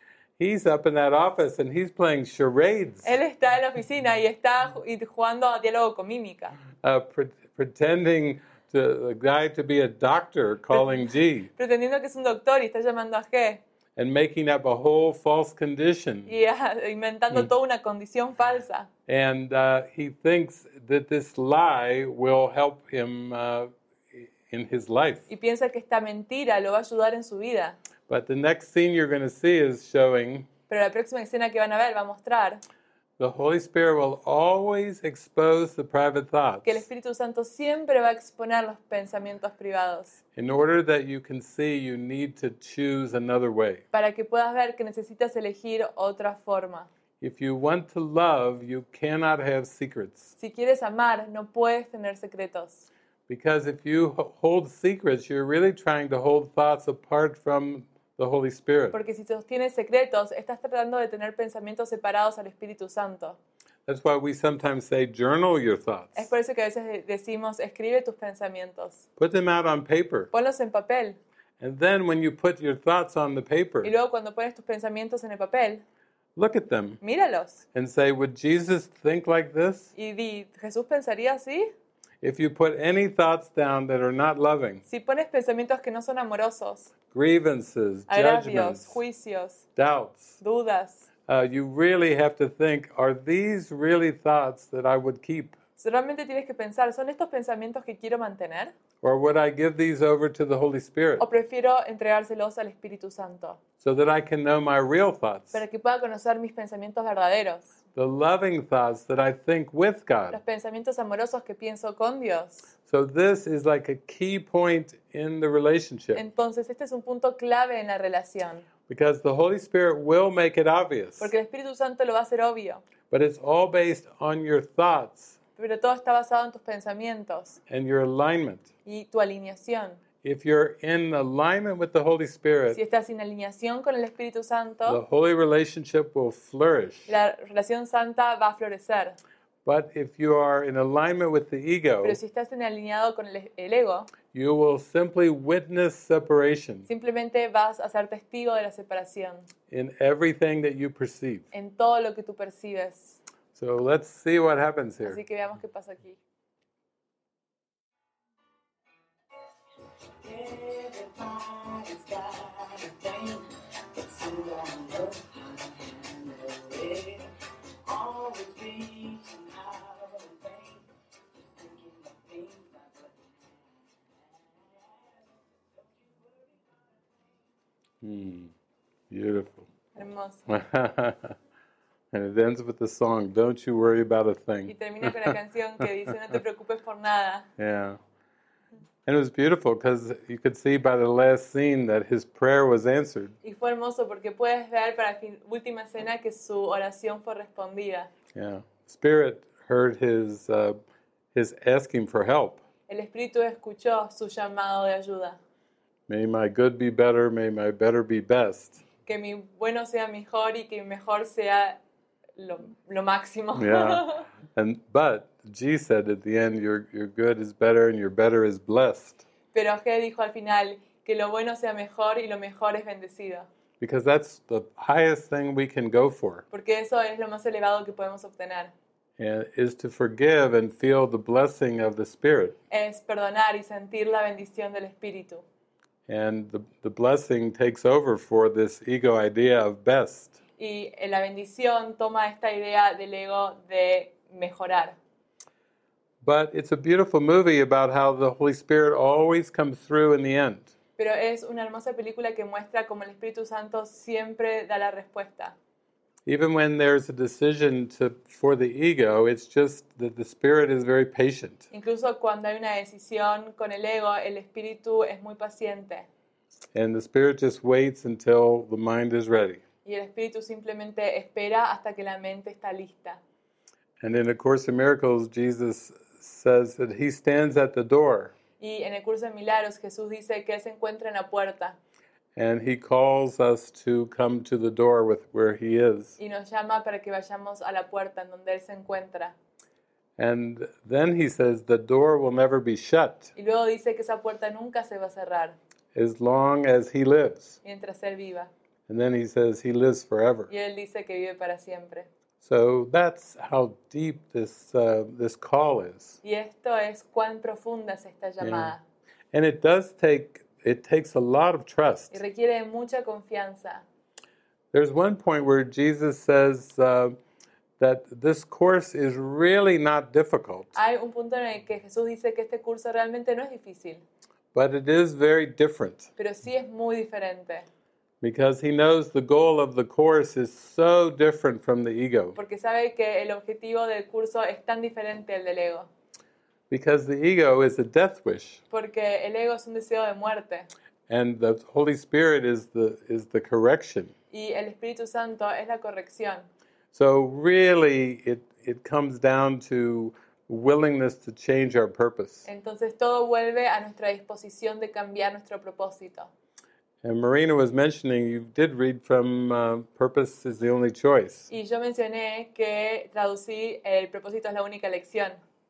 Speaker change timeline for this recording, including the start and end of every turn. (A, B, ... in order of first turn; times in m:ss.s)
0:00.4-0:03.1 A
0:03.0-0:06.6 B
0:06.8-0:11.5 A
0:10.7-0:11.0 B
0:11.6-0:13.6 B
0:14.0-0:16.3 A
0:16.3-0:18.9 B
0:19.1-0:25.2 A
0:25.3-0:27.8 B
0:28.1-0:30.5 A
0:30.7-0:32.6 B
0:33.2-0:36.8 A
0:36.6-0:40.2 B
0:40.3-0:43.8 A
0:43.9-0:46.9 B
0:47.2-0:50.3 A
0:50.4-0:52.8 B
0:53.3-0:59.0 A
0:58.9-1:03.4 B
1:03.8-1:06.3 A
1:06.1-1:09.0 B
1:09.2-1:10.3 A
1:10.3-1:11.2 B
1:11.6-1:13.9 A
1:13.8-1:15.8 B
1:16.4-1:17.0 A
1:17.0-1:17.6 B
1:17.7-1:19.9 A
1:20.0-1:21.7 B
1:22.2-1:24.8 A
1:24.9-1:26.9 B
1:27.1-1:29.0 A
1:28.1-1:29.6 B
1:29.8-1:30.4 A
1:30.4-1:31.1 B
1:31.3-1:35.6 A
1:35.8-1:38.7 B
1:39.0-1:41.2 A
1:41.2-1:43.6 B
1:43.8-1:45.6 A
1:45.5-1:47.7 B
1:47.9-1:50.4 A
1:50.3-1:52.7 B
1:52.9-1:56.2 A
1:56.1-1:58.6 B
1:58.9-2:01.3 A
2:01.2-2:02.8 B
2:03.1-2:05.4 A
2:05.6-2:07.6 B
2:07.7-2:08.7 A
2:08.8-2:10.0 B
2:10.2-2:12.8 A
2:12.7-2:15.0 B
2:14.8-2:17.1 A
2:17.1-2:19.2 B
2:19.6-2:22.2 A
2:22.0-2:24.1 B
2:24.3-2:26.9 A
2:26.9-2:29.5 B
2:29.7-2:31.4 A
2:31.5-2:33.2 B
2:33.5-2:35.2 A
2:35.0-2:36.2 B
2:40.2-2:43.4 C
2:44.0-2:47.3 C
2:47.8-2:50.8 C
2:51.4-2:53.4 C
2:54.3-2:57.2 C
2:58.0-2:58.5 A
2:59.1-2:59.7 A
2:59.9-3:00.4 B
3:00.5-3:01.3 A
3:02.1-3:05.3 A
3:04.7-3:07.5 B
3:07.6-3:08.0 A
3:09.0-3:13.3 A
3:13.4-3:18.1 B
3:18.3-3:20.8 A
3:21.3-3:22.6 A
3:22.9-3:25.4 B
3:26.1-3:28.8 A
3:29.0-3:31.8 B
3:32.4-3:34.2 B
3:33.6-3:34.0 A
3:34.5-3:39.2 A
3:39.5-3:43.5 B
3:43.8-3:46.4 A
3:46.5-3:48.7 B
3:49.2-3:52.6 A
3:52.7-3:55.4 B
3:56.1-4:00.4 A
4:00.6-4:05.0 B
4:06.2-4:10.7 A
4:11.0-4:15.5 B
4:16.2-4:21.6 A
4:21.7-4:26.1 B
4:26.7-4:29.6 A
4:29.8-4:33.2 B
4:34.0-4:38.3 A
4:38.6-4:41.8 B
4:42.4-4:46.2 A
4:46.2-4:49.3 B
4:50.2-4:53.3 A
4:53.4-4:55.6 B
4:55.9-4:57.6 A
4:57.6-4:58.5 B
4:58.9-5:00.5 A
5:00.5-5:02.1 B
5:02.4-5:06.2 A
5:06.2-5:08.8 B
5:08.4-5:08.7 A
5:09.3-5:12.2 A
5:12.1-5:13.8 B
5:14.7-5:17.2 A
5:17.8-5:20.7 A
5:20.7-5:24.0 B
5:24.5-5:26.1 A
5:26.2-5:27.7 B
5:28.2-5:32.4 A
5:32.4-5:35.9 B
5:36.7-5:38.6 A
5:38.7-5:40.7 B
5:41.1-5:44.1 A
5:44.3-5:46.5 B
5:46.9-5:52.5 A
5:52.4-5:56.3 B
5:57.0-6:01.5 A
6:01.5-6:05.4 B